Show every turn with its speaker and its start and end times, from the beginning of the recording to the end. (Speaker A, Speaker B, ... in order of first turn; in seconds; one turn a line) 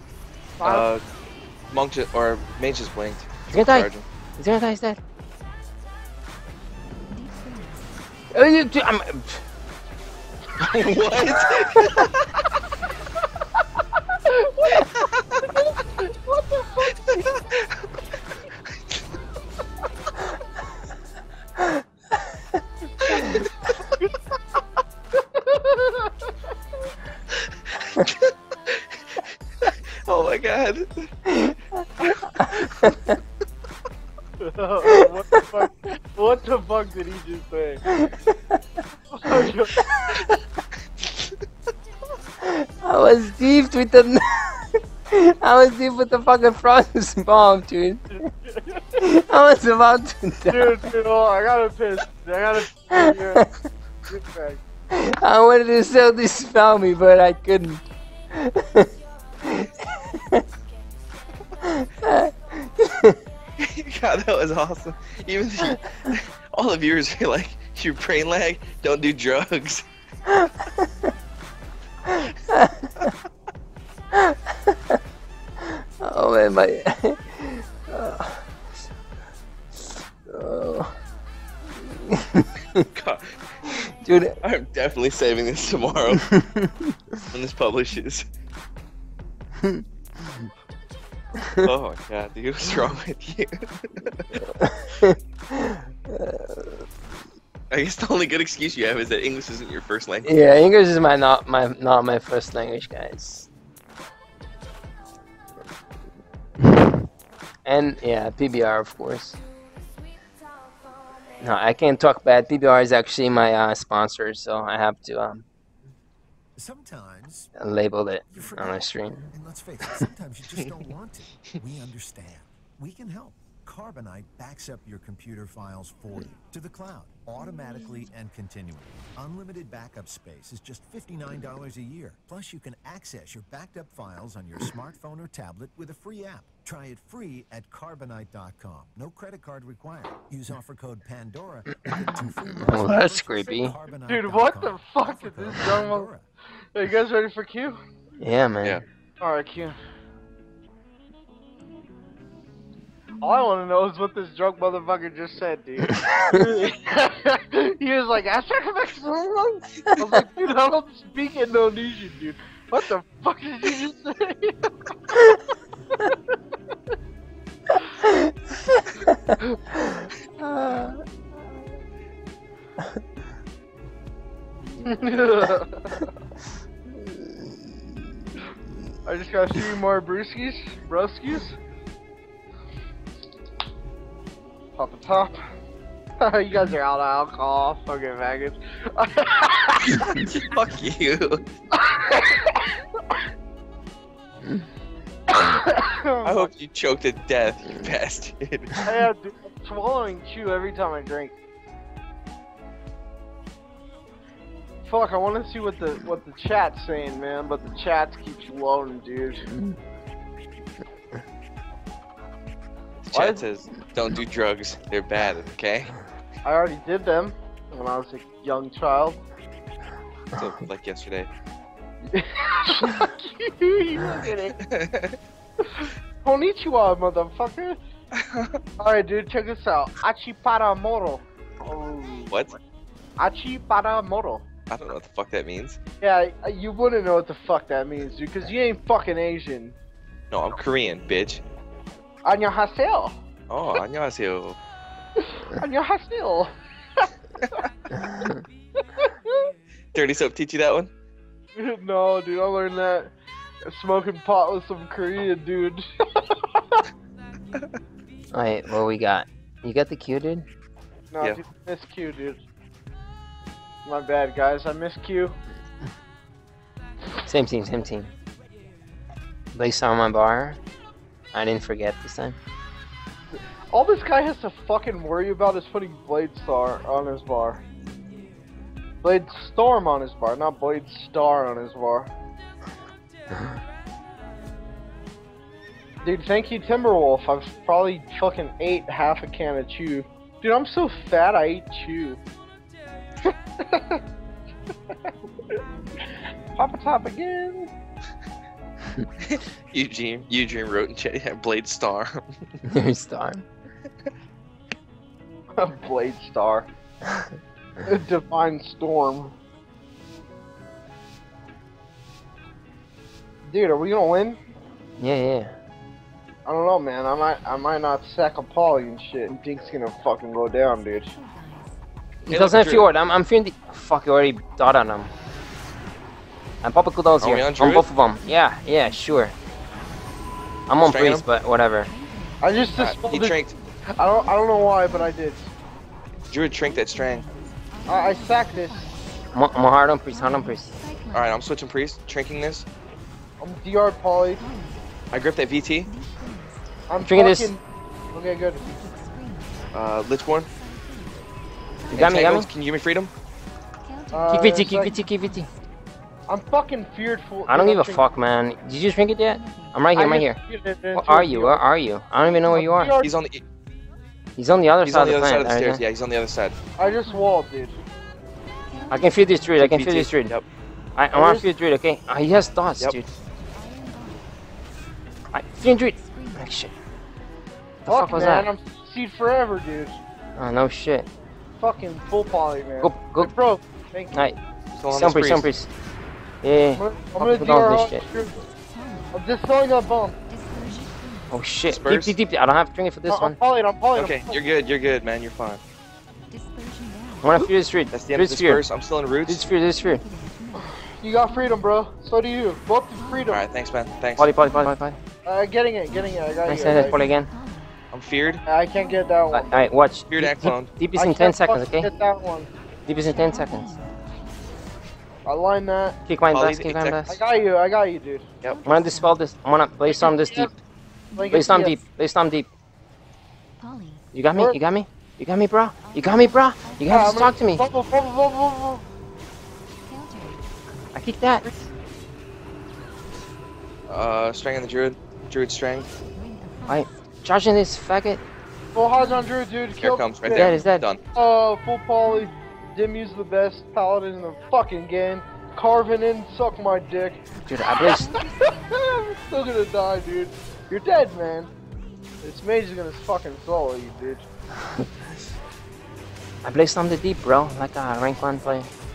Speaker A: 0.6-0.9
Speaker B: 0.6-1.0
Speaker B: 1.7-4.0
Speaker C: 3.5-5.0
Speaker C: 8.3-9.4
Speaker B: 10.6-12.4
Speaker A: 14.2-14.9
Speaker B: 14.7-15.4
Speaker A: 15.6-16.9
Speaker B: 17.1-17.7
Speaker A: 25.3-26.3
Speaker B: 27.4-31.1
Speaker C: 31.2-33.1
Speaker B: 32.3-32.7
Speaker A: 34.4-37.8
Speaker C: 37.9-38.6
Speaker A: 39.1-39.9
Speaker C: 39.4-40.3
Speaker C: 42.4-48.2
Speaker A: 48.5-48.9
Speaker C: 49.0-50.9
Speaker A: 50.5-53.5
Speaker C: 52.9-53.5
Speaker A: 54.1-54.6
Speaker C: 54.9-58.9
Speaker C: 59.4-60.4
Speaker C: 61.6-63.2
Speaker B: 63.6-69.8
Speaker C: 70.3-70.9
Speaker C: 72.1-73.1
Speaker C: 74.1-75.0
Speaker C: 75.6-78.4
Speaker C: 80.3-80.9
Speaker C: 81.8-82.9
Speaker B: 82.9-83.3
Speaker C: 83.7-84.4
Speaker B: 84.4-86.3
Speaker C: 86.2-87.2
Speaker B: 87.3-88.2
Speaker C: 89.6-90.5
Speaker C: 91.4-91.7
Speaker B: 91.6-94.4
Speaker C: 94.5-96.8
Speaker B: 97.7-100.3
Speaker C: 100.2-103.5
Speaker C: 106.6-106.9
Speaker C: 107.6-109.4
Speaker C: 111.4-115.4
Speaker D: 116.6-117.5
Speaker C: 117.5-119.3
Speaker D: 118.3-146.2
Speaker C: 142.6-143.8
Speaker A: 144.1-146.1
Speaker A: 146.7-147.8
Speaker C: 148.2-148.8
Speaker A: 149.2-149.8
Speaker A: 153.2-164.7
Speaker C: 168.0-169.3
Speaker C: 170.4-171.0
Speaker A: 174.8-176.1
Speaker A: 179.0-181.6
Speaker A: 184.8-185.4
Speaker A: 186.2-190.1
Speaker B: 189.9-191.4
Speaker A: 191.7-193.2
Speaker A: 195.3-196.5
Speaker B: 196.2-198.8
Speaker A: 198.8-201.3
Speaker A: 204.8-209.5
Speaker B: 213.0-216.0
Speaker A: 213.1-213.4
Speaker A: 216.4-219.2
Speaker B: 220.3-221.3
Speaker A: 222.1-224.6
Speaker B: 224.6-225.2
Speaker A: 225.6-227.8
Speaker B: 228.1-228.6
Speaker A: 228.8-232.6
Speaker A: 233.2-234.4
Speaker B: 234.7-235.8
Speaker A: 236.0-239.8
Speaker B: 240.3-241.4
Speaker A: 242.2-243.1
Speaker B: 243.5-244.6
Speaker A: 245.4-247.6
Speaker C: 248.1-248.3
Speaker A: 248.9-249.5
Speaker B: 249.9-250.9
Speaker A: 251.6-253.1
Speaker A: 253.7-256.8
Speaker C: 258.3-260.4
Speaker A: 261.1-262.4
Speaker A: 263.8-265.3
Speaker C: 267.2-268.1
Speaker C: 269.5-270.6
Speaker C: 271.3-272.4
Speaker A: 273.4-277.6
Speaker A: 279.0-282.1
Speaker A: 286.0-292.2
Speaker A: 293.2-294.0
Speaker A: 294.9-296.1
Speaker A: 296.6-297.7
Speaker B: 299.2-302.2
Speaker C: 302.6-303.4
Speaker A: 305.6-306.7
Speaker A: 307.8-309.3
Speaker A: 313.4-314.4
Speaker C: 315.0-315.5
Speaker A: 316.4-321.1
Speaker C: 322.2-325.1
Speaker B: 322.3-322.9
Speaker C: 326.6-329.3
Speaker B: 327.2-327.9
Speaker C: 330.7-331.9
Speaker B: 330.8-331.2
Speaker A: 332.4-333.3
Speaker B: 332.8-333.5
Speaker A: 333.9-335.5
Speaker B: 336.3-337.3
Speaker A: 337.9-338.9
Speaker C: 339.3-340.7
Speaker B: 341.1-342.6
Speaker A: 343.4-344.4
Speaker B: 345.1-345.9
Speaker A: 346.9-347.6
Speaker C: 347.0-347.5
Speaker A: 348.1-348.7
Speaker B: 349.7-350.5
Speaker C: 351.9-352.5
Speaker B: 351.9-353.1
Speaker A: 354.1-354.9
Speaker C: 354.3-355.5
Speaker A: 356.3-358.0
Speaker C: 357.5-360.4
Speaker A: 359.9-361.6
Speaker C: 360.9-362.9
Speaker A: 362.5-363.1
Speaker B: 363.0-363.4
Speaker C: 364.4-365.8
Speaker B: 364.8-366.6
Speaker A: 366.8-367.8
Speaker C: 368.9-370.3
Speaker B: 369.6-370.4
Speaker C: 370.9-373.1
Speaker A: 371.1-371.5
Speaker C: 375.3-376.7
Speaker C: 377.8-378.5
Speaker A: 377.9-380.0
Speaker C: 380.4-381.1
Speaker A: 381.6-384.3
Speaker C: 382.8-383.3
Speaker C: 384.1-384.4
Speaker B: 384.8-385.5
Speaker C: 384.9-385.7
Speaker C: 386.4-388.0
Speaker A: 386.8-388.5
Speaker A: 389.1-390.2
Speaker C: 391.3-393.4
Speaker B: 391.7-392.1
Speaker A: 393.1-394.3
Speaker B: 393.9-395.6
Speaker C: 397.2-398.6
Speaker B: 397.9-399.4
Speaker C: 399.3-400.0
Speaker A: 400.6-403.4
Speaker B: 403.3-404.3
Speaker C: 404.2-405.0
Speaker A: 405.2-406.9
Speaker C: 406.4-407.3
Speaker B: 407.9-408.4
Speaker A: 408.4-409.7
Speaker C: 409.3-411.9
Speaker B: 410.1-410.7
Speaker A: 410.9-412.5
Speaker C: 412.9-413.7
Speaker A: 415.2-416.0
Speaker C: 416.1-417.2
Speaker B: 416.3-417.0
Speaker A: 417.1-418.3
Speaker C: 418.6-420.5
Speaker A: 419.9-420.5
Speaker A: 421.2-421.8
Speaker C: 421.3-422.5
Speaker C: 424.1-427.6
Speaker A: 426.9-428.8
Speaker C: 430.9-431.4
Speaker B: 433.9-435.9
Speaker C: 436.7-438.2
Speaker A: 438.7-440.5
Speaker B: 439.8-441.0
Speaker C: 440.3-440.8
Speaker A: 441.1-447.2
Speaker C: 447.4-448.1
Speaker A: 447.9-451.5
Speaker A: 452.2-454.2
Speaker C: 456.4-458.7